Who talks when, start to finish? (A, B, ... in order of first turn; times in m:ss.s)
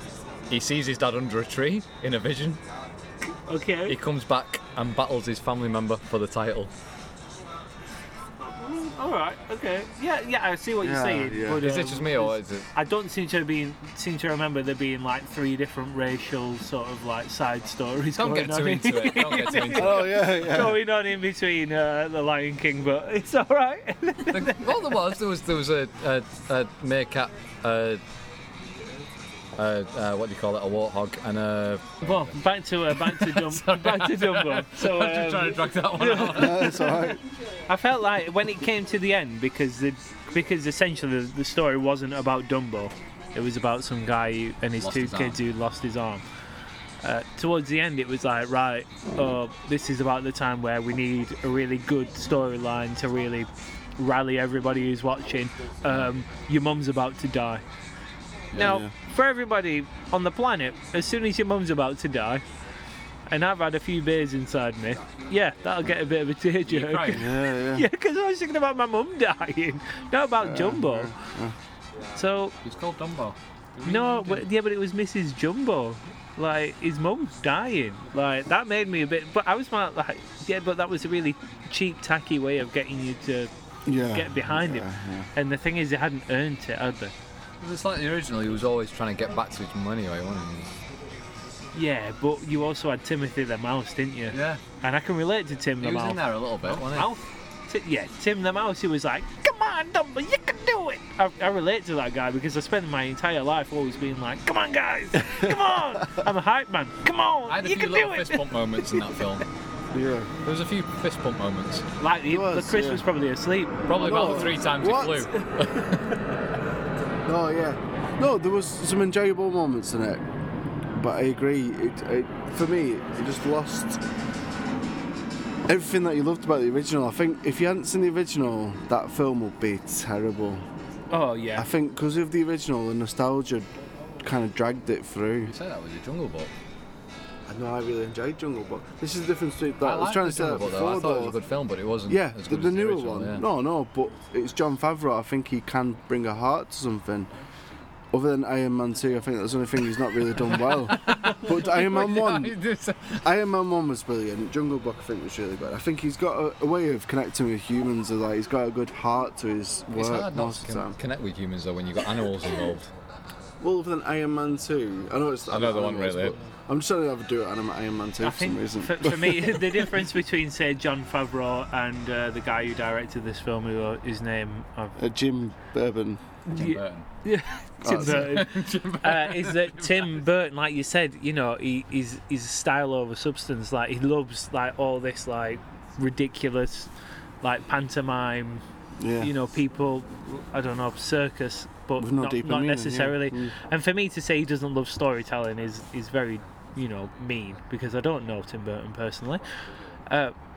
0:00.5-0:02.6 A
0:03.5-0:04.0 B
0:03.9-0:06.7 A
0:08.4-0:24.7 B
0:10.8-0:11.6 C
0:11.6-0:12.7 A
0:18.2-0:20.2 A
0:19.7-0:20.8 C
0:24.3-0:28.0 A
0:29.6-0:32.3 A
0:32.0-0:37.0 B
0:32.9-0:36.8 A
0:36.3-0:37.2 C
0:37.7-0:46.2 B
0:44.8-0:45.4 A
0:47.0-0:57.6 B
0:58.5-0:58.8 A
0:58.5-1:02.4 B
0:58.6-0:58.9 C
1:03.3-1:11.1 B
1:06.7-1:07.2 A
1:07.1-1:07.9 C
1:10.4-1:11.6 C
1:12.2-1:12.5 B
1:12.6-1:14.5 A
1:13.8-1:27.1 B
1:23.9-1:25.3 C
1:27.6-1:30.7 A
1:31.7-1:49.4 B
1:34.3-1:34.6 A
1:35.8-1:37.1 A
1:47.5-1:49.4 A
1:49.9-1:50.3 C
1:50.4-1:51.9 A
1:52.0-1:54.4 B
1:52.3-1:53.0 C
1:53.9-1:56.2 A
1:53.9-1:55.3 C
1:57.2-2:00.3 C
2:00.9-2:04.0 C
2:05.7-2:10.6 C
2:11.1-2:11.7 B
2:11.6-2:13.7 C
2:14.2-2:15.5 C
2:15.4-2:16.5 A
2:17.5-2:21.4 C
2:19.8-2:23.5 A
2:22.1-2:27.3 C
2:28.1-2:32.6 C
2:30.5-2:33.3 A
2:33.2-2:41.0 C
2:40.0-2:42.9 A
2:43.6-2:50.0 C
2:45.5-2:46.4 A
2:48.2-2:55.0 B
2:55.0-2:56.2 C
2:56.5-3:06.9 B
2:56.5-2:57.1 A
2:57.8-2:58.5 C
2:57.9-3:00.2 A
3:07.4-3:08.6 B
3:09.0-3:09.3 C
3:09.2-3:19.4 B
3:12.0-3:13.5 C
3:20.1-3:20.4 B